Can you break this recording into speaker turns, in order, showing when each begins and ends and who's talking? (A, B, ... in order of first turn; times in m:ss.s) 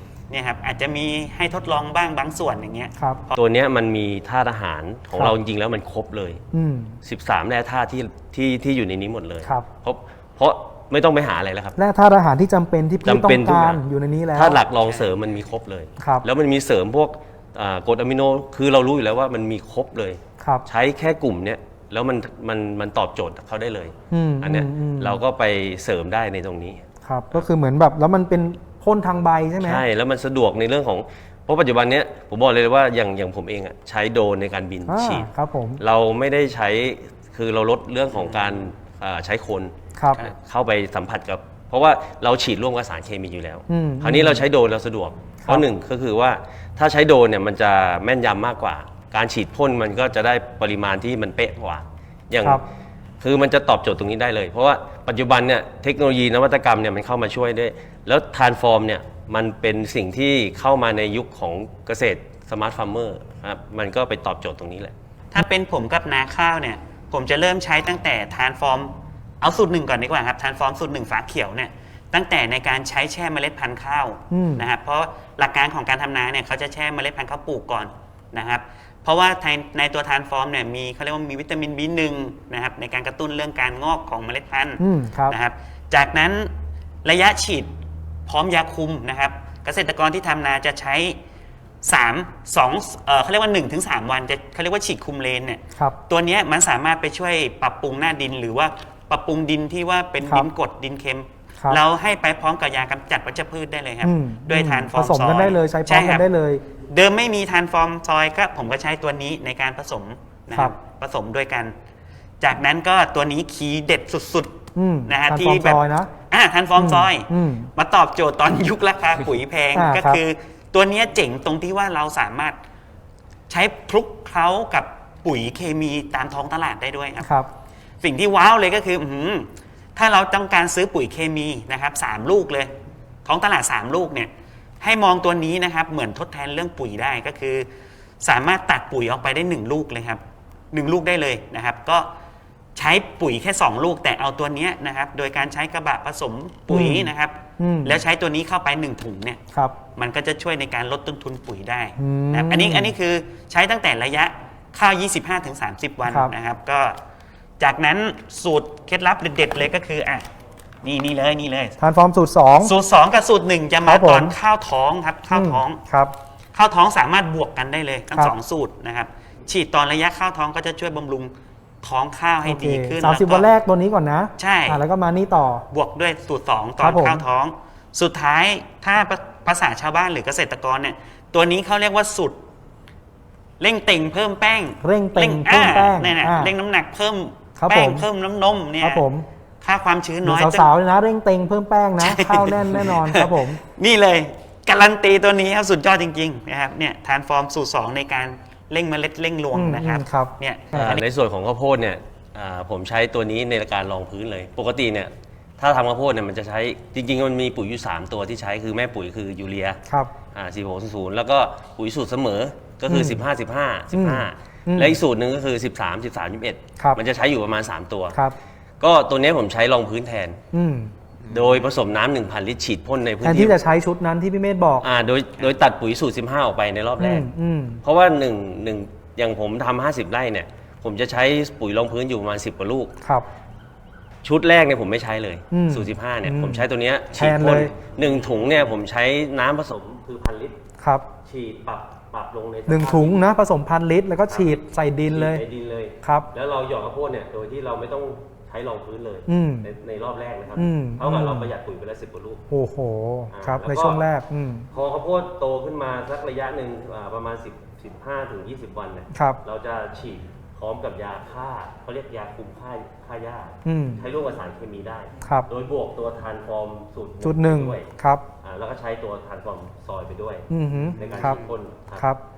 0:00.3-0:03.4 A
0:03.4-0:06.4 B
0:06.5-0:07.0 C
0:07.0-0:11.8 B
0:11.8-0:14.6 C
0:13.0-0:13.8 B
0:14.3-0:26.8 B
0:16.0-0:16.3 C
0:20.4-0:20.7 C
0:24.1-0:25.2 C
0:27.0-0:29.8 C
0:29.6-0:35.3 B
0:34.9-0:35.8 C
0:35.8-0:52.6 B
0:40.0-0:40.2 C
0:43.7-0:44.4 C
0:53.2-1:04.9 B
1:05.3-1:26.5 A
1:14.3-1:14.6 C
1:24.8-1:25.4 C
1:27.0-1:27.7 A
1:28.3-1:31.2 A
1:31.8-1:46.3 A
1:44.0-1:46.6 C
1:46.9-1:51.8 A
1:52.4-2:02.6 A
1:54.8-1:56.1 C
1:56.8-1:57.7 C
1:59.7-2:00.2 C
2:03.5-2:07.3 A
2:07.2-2:07.5 C
2:08.0-2:12.7 A
2:13.2-2:17.7 A
2:18.2-2:22.1 A
2:22.8-2:29.4 A
2:26.7-2:28.0 C
2:30.0-2:37.0 A
2:32.0-2:33.0 C
2:37.6-2:40.3 A
2:40.8-2:41.8 A
2:41.8-2:42.7 C
2:42.6-2:45.8 A
2:43.8-2:44.4 C
2:45.3-2:46.1 C
2:46.5-2:53.5 A
2:52.4-2:55.6 C
2:54.4-2:54.8 A
2:55.7-3:02.4 A
2:56.8-2:57.2 C
3:03.6-3:09.0 A
3:04.8-3:06.5 C
3:07.6-3:08.1 C
3:08.8-3:09.3 C
3:09.6-3:10.7 A
3:10.2-3:13.6 C
3:12.0-3:20.8 A
3:19.5-3:21.0 C
3:20.7-3:29.8 B
3:29.9-3:30.1 C
3:30.3-3:38.2 B
3:32.9-3:33.2 C
3:33.9-3:35.0 C
3:38.8-3:40.4 B
3:40.5-3:40.9 C
3:41.2-3:41.6 A
3:41.3-3:43.5 B
3:43.2-3:44.9 C
3:44.8-3:47.3 B
3:47.0-3:47.8 C
3:47.8-3:52.9 B
3:53.0-3:53.3 C
3:54.2-4:00.6 B
3:55.5-3:57.7 C
4:00.8-4:01.1 C
4:01.2-4:03.2 B
4:02.7-4:05.4 C
4:04.3-4:12.4 B
4:06.0-4:06.3 C
4:09.3-4:09.7 C
4:10.6-4:11.5 C
4:12.5-4:14.7 C
4:13.3-4:14.0 B
4:14.7-4:27.9 B
4:19.1-4:19.4 C
4:23.7-4:24.0 C
4:25.2-4:25.5 C
4:27.2-4:28.3 C
4:28.4-4:32.1 B
4:30.5-4:31.4 C
4:31.1-4:31.5 A